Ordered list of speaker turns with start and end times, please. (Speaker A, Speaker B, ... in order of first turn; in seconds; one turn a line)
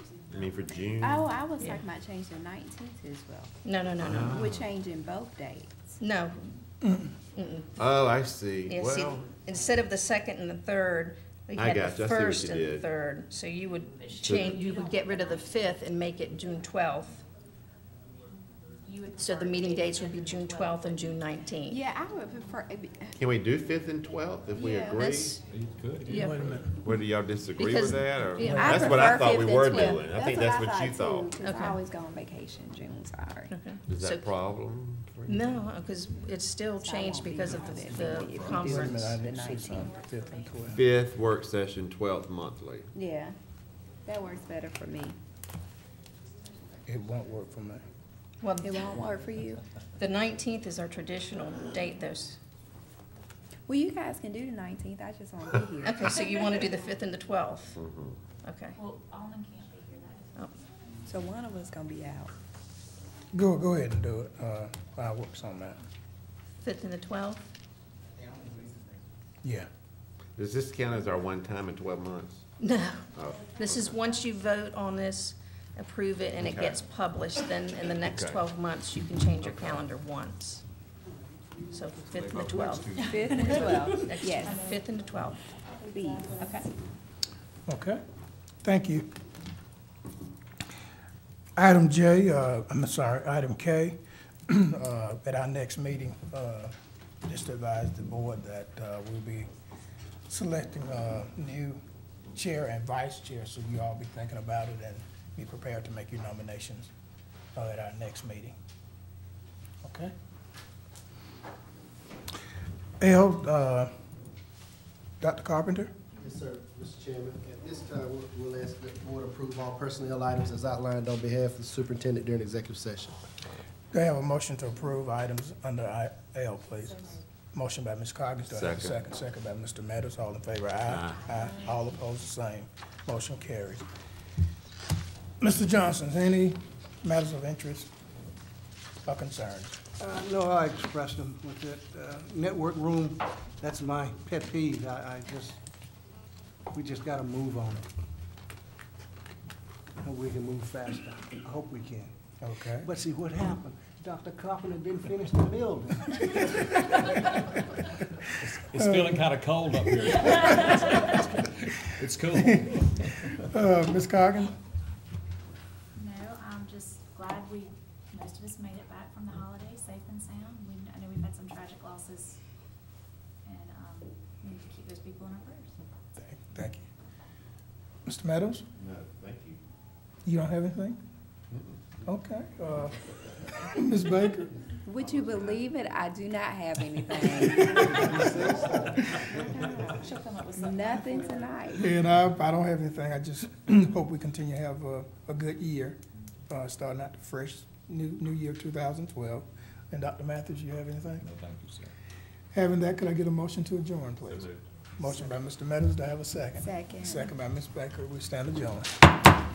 Speaker A: 0.3-1.3
Speaker B: 1.0-3.5
Speaker C: 1.6-1.8
Speaker C: 3.6-4.5
Speaker A: 4.0-4.6
Speaker B: 4.3-6.0
Speaker C: 6.0-6.5
Speaker C: 7.4-7.8
Speaker A: 7.8-9.3
Speaker C: 8.7-17.2
Speaker A: 11.5-12.9
Speaker D: 14.0-15.5
Speaker A: 14.2-14.5
Speaker D: 18.8-21.2
Speaker C: 19.2-21.8
Speaker B: 21.7-23.1
Speaker A: 23.2-25.4
Speaker B: 24.5-25.3
Speaker E: 25.5-26.7
Speaker C: 26.1-26.4
Speaker F: 26.1-26.7
Speaker A: 26.7-31.3
Speaker C: 27.6-29.1
Speaker B: 28.5-33.5
Speaker C: 31.4-31.8
Speaker C: 33.5-34.3
Speaker A: 33.9-35.6
Speaker C: 35.3-39.2
Speaker B: 36.8-40.0
Speaker F: 38.5-40.8
Speaker D: 39.5-40.8
Speaker A: 40.7-42.9
Speaker B: 43.0-43.4
Speaker B: 44.1-45.2
Speaker F: 46.9-47.8
Speaker C: 48.4-48.8
Speaker B: 48.6-49.6
Speaker C: 50.0-52.4
Speaker B: 53.7-56.0
Speaker C: 55.8-57.8
Speaker A: 57.8-58.2
Speaker C: 58.4-58.8
Speaker D: 58.8-60.6
Speaker B: 61.1-62.3
Speaker F: 63.3-65.8
Speaker C: 66.6-67.5
Speaker F: 69.4-69.7
Speaker A: 70.4-72.4
Speaker C: 72.6-80.6
Speaker A: 73.1-74.0
Speaker A: 76.4-76.8
Speaker A: 78.0-78.4
Speaker A: 79.4-79.9
Speaker C: 81.7-83.0
Speaker E: 82.0-84.0
Speaker D: 83.0-84.9
Speaker B: 83.1-84.5
Speaker C: 83.9-85.4
Speaker D: 85.5-86.7
Speaker B: 85.8-86.4
Speaker C: 86.4-86.7
Speaker F: 87.7-88.0
Speaker F: 88.6-89.1
Speaker F: 91.6-94.0
Speaker F: 94.5-96.7
Speaker F: 97.3-99.5
Speaker F: 100.3-101.8
Speaker F: 102.3-106.9
Speaker F: 107.6-108.6
Speaker F: 109.8-110.1
Speaker F: 113.0-113.9
Speaker F: 115.2-115.9
Speaker G: 116.2-123.2
Speaker F: 123.9-133.9
Speaker A: 128.4-129.0
Speaker A: 130.9-131.2
Speaker F: 135.4-137.9
Speaker F: 139.1-139.8
Speaker H: 140.0-145.6
Speaker H: 146.7-147.9
Speaker H: 150.0-152.1
Speaker F: 152.4-152.9
Speaker H: 152.8-156.2
Speaker E: 158.4-163.1
Speaker F: 163.2-164.5
Speaker D: 165.9-172.4
Speaker D: 173.4-175.8
Speaker F: 176.2-176.8
Speaker F: 178.1-178.7
Speaker A: 178.8-179.6
Speaker F: 180.3-181.0
Speaker F: 182.1-184.5
Speaker B: 184.9-188.4
Speaker A: 185.0-185.6
Speaker F: 187.4-188.1
Speaker D: 189.2-191.7
Speaker B: 189.3-191.9
Speaker F: 191.8-196.0
Speaker F: 196.5-201.2
Speaker E: 201.2-201.9
Speaker F: 202.5-208.9
Speaker A: 204.2-204.6
Speaker B: 206.6-207.3